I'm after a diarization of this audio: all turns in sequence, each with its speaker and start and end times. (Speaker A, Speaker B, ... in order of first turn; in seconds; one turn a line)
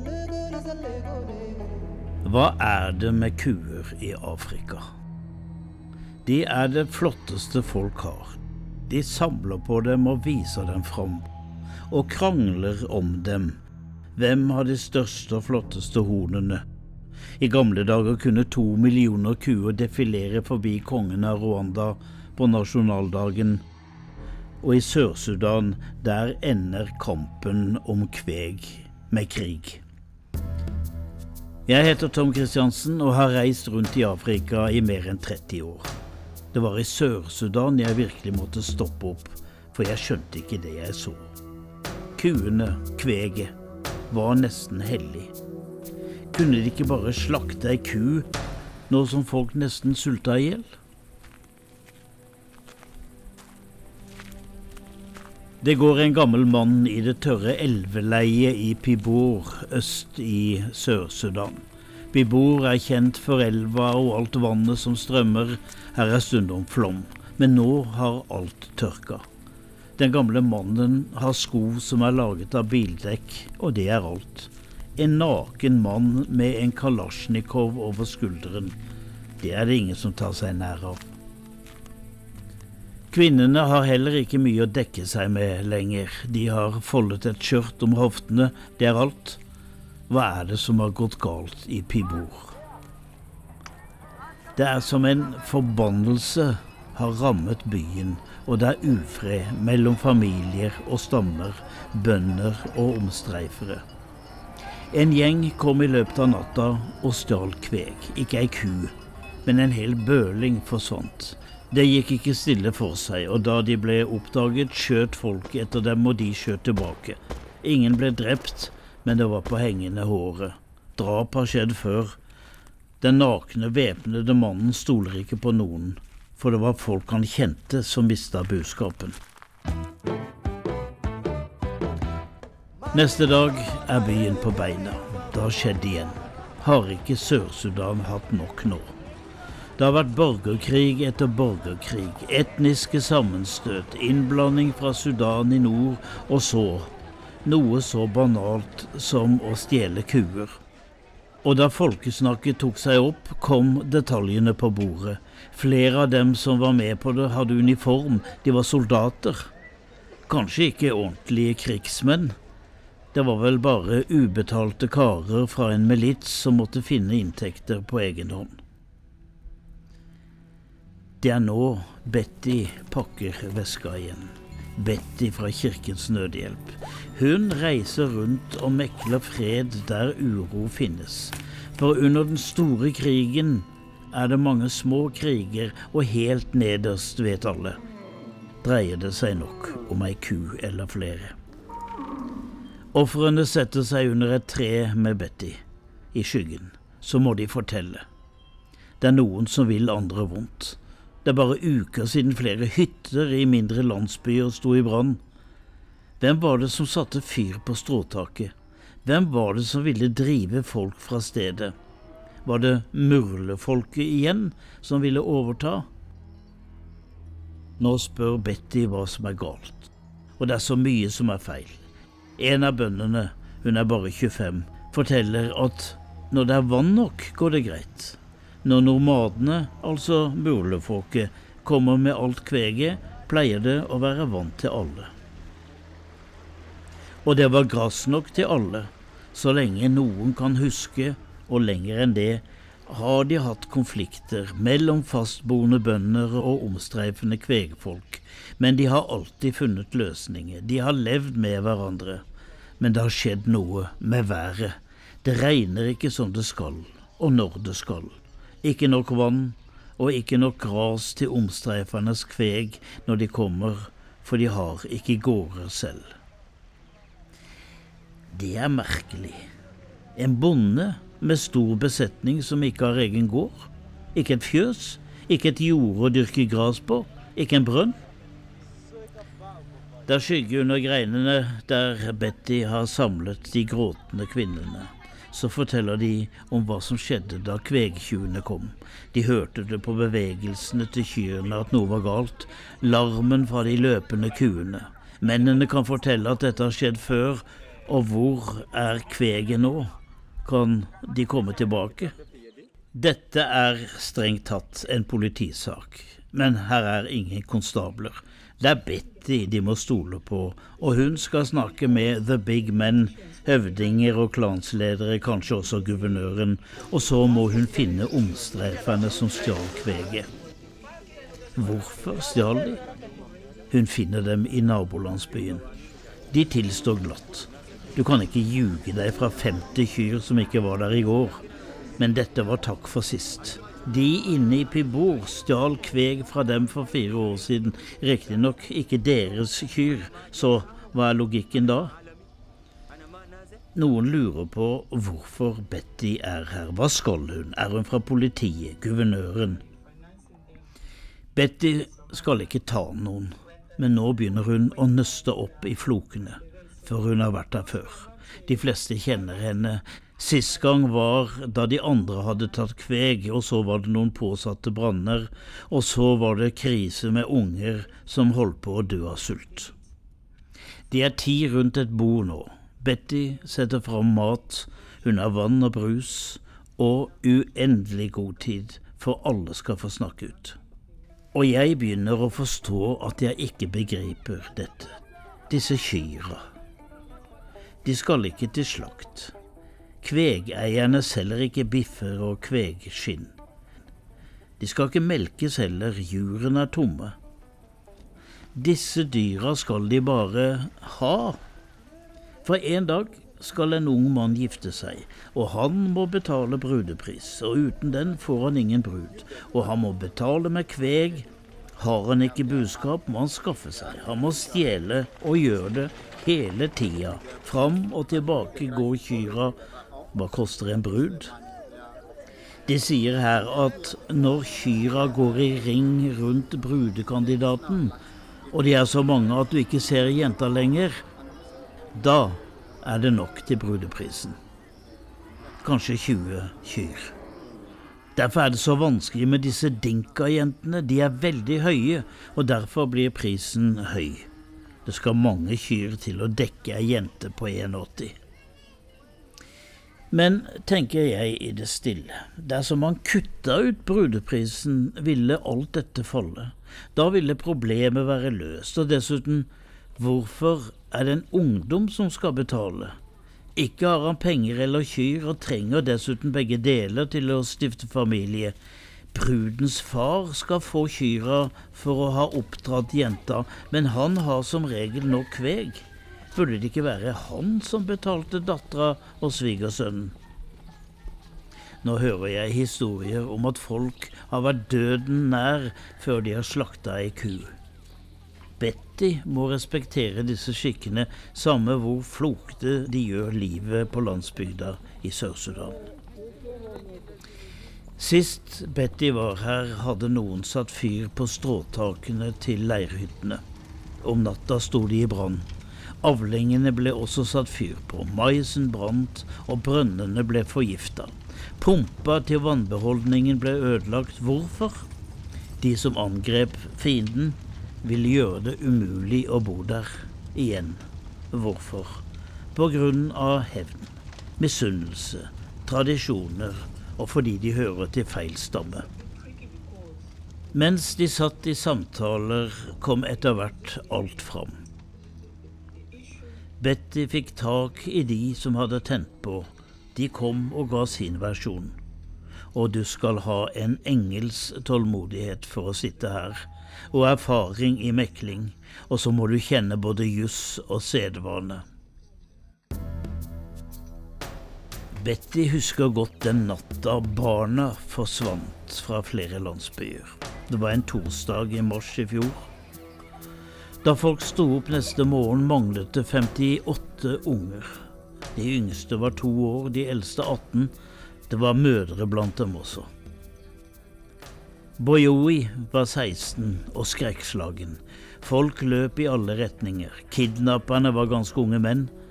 Speaker A: 2.2-4.9
Speaker A: 6.2-11.2
Speaker A: 11.9-13.6
Speaker A: 14.2-16.6
Speaker A: 17.4-23.6
Speaker A: 24.6-29.8
Speaker A: 31.6-35.9
Speaker A: 36.5-41.3
Speaker A: 42.2-43.5
Speaker A: 44.1-45.3
Speaker A: 46.3-48.3
Speaker A: 48.9-50.7
Speaker A: 55.6-69.2
Speaker A: 70.0-78.8
Speaker A: 79.4-81.1
Speaker A: 83.1-89.4
Speaker A: 90.1-92.5
Speaker A: 94.5-103.8
Speaker A: 104.9-108.9
Speaker A: 109.5-122.2
Speaker A: 123.0-129.2
Speaker A: 132.9-138.9
Speaker A: 139.8-146.9
Speaker A: 147.4-150.6
Speaker A: 151.4-159.5
Speaker A: 160.3-162.3
Speaker A: 163.1-168.6
Speaker A: 171.2-187.8
Speaker A: 188.6-191.3
Speaker A: 192.9-195.6
Speaker A: 196.1-198.1
Speaker A: 199.0-205.2
Speaker A: 206.2-208.5
Speaker A: 209.0-211.7
Speaker A: 212.4-215.9
Speaker A: 217.8-221.8
Speaker A: 222.4-235.1
Speaker A: 237.2-252.2
Speaker A: 252.8-266.2
Speaker A: 268.3-269.5
Speaker A: 270.1-278.0
Speaker A: 280.1-299.9
Speaker A: 300.4-302.1
Speaker A: 302.9-320.3
Speaker A: 321.6-322.8
Speaker A: 323.7-325.6
Speaker A: 326.3-331.4
Speaker A: 332.0-341.9
Speaker A: 343.8-349.6
Speaker A: 351.3-369.7
Speaker A: 370.9-380.6
Speaker A: 381.3-385.0
Speaker A: 385.5-386.4
Speaker A: 387.8-389.3
Speaker A: 390.0-393.3
Speaker A: 394.6-397.1
Speaker A: 398.5-401.4
Speaker A: 402.4-419.6
Speaker A: 420.1-421.3
Speaker A: 422.7-427.9
Speaker A: 428.5-431.0
Speaker A: 431.9-434.4
Speaker A: 435.6-437.1
Speaker A: 438.1-444.3
Speaker A: 444.8-448.2
Speaker A: 450.1-462.9
Speaker A: 463.6-468.6
Speaker A: 469.1-480.1
Speaker A: 481.8-487.6
Speaker A: 488.6-495.8
Speaker A: 498.0-503.4
Speaker A: 504.0-505.5
Speaker A: 506.0-514.9
Speaker A: 515.6-522.0
Speaker A: 522.5-528.9
Speaker A: 530.5-534.6
Speaker A: 536.6-541.8
Speaker A: 542.5-551.6
Speaker A: 554.9-562.5
Speaker A: 563.8-567.8
Speaker A: 568.4-570.7
Speaker A: 571.3-572.9
Speaker A: 574.8-581.9